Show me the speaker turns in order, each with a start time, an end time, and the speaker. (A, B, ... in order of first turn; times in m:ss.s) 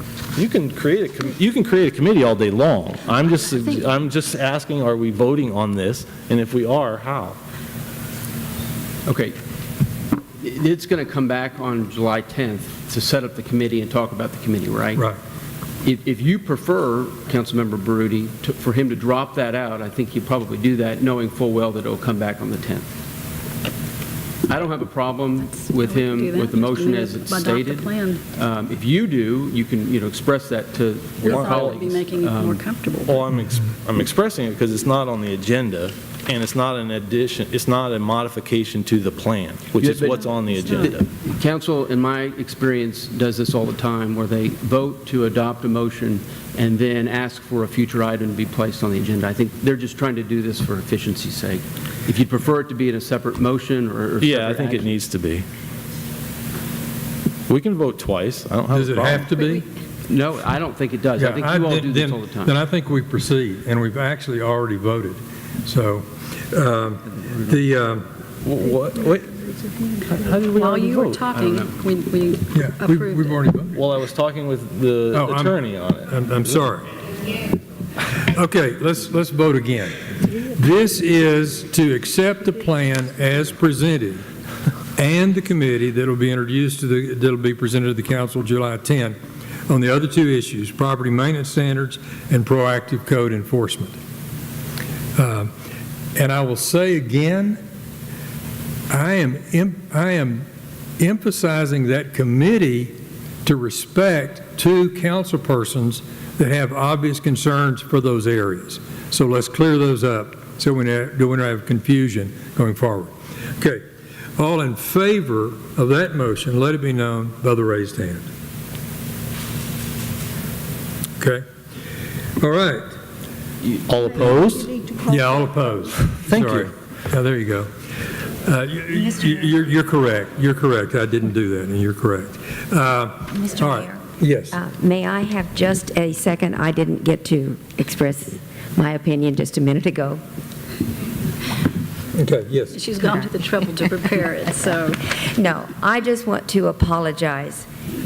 0:00.4-0:07.4 A
0:09.0-0:09.4 B
0:10.4-0:15.0 B
0:15.8-0:22.9 B
0:24.5-0:32.6 B
0:25.4-0:28.2 C
0:31.2-0:33.2 C
0:31.2-0:31.8 A
0:33.0-0:41.0 A
0:39.8-0:55.0 B
0:40.2-0:40.9 C
0:54.2-0:55.4 A
0:57.5-0:59.3 A
0:58.7-0:59.6 D
1:00.1-1:02.5 B
1:01.2-1:08.0 D
1:08.4-1:09.3 A
1:09.4-1:13.4 C
1:10.2-1:11.2 A
1:11.3-1:11.7 B
1:12.5-1:13.8 D
1:13.7-1:16.1 A
1:15.1-1:16.8 D
1:18.1-1:24.2 D
1:25.0-1:29.2 D
1:29.7-1:34.0 D
1:35.2-1:35.5 D
1:36.1-1:37.6 D
1:38.9-1:40.4 D
1:41.0-1:53.8 D
1:54.4-1:58.3 D
2:01.2-2:01.4 D
2:02.4-2:02.8 D
2:03.9-2:04.9 A
2:05.0-2:07.7 D
2:06.2-2:06.7 A
2:08.4-2:14.6 D
2:14.5-2:20.2 E
2:22.1-2:22.8 D
2:22.7-2:25.0 C
2:25.2-2:27.6 E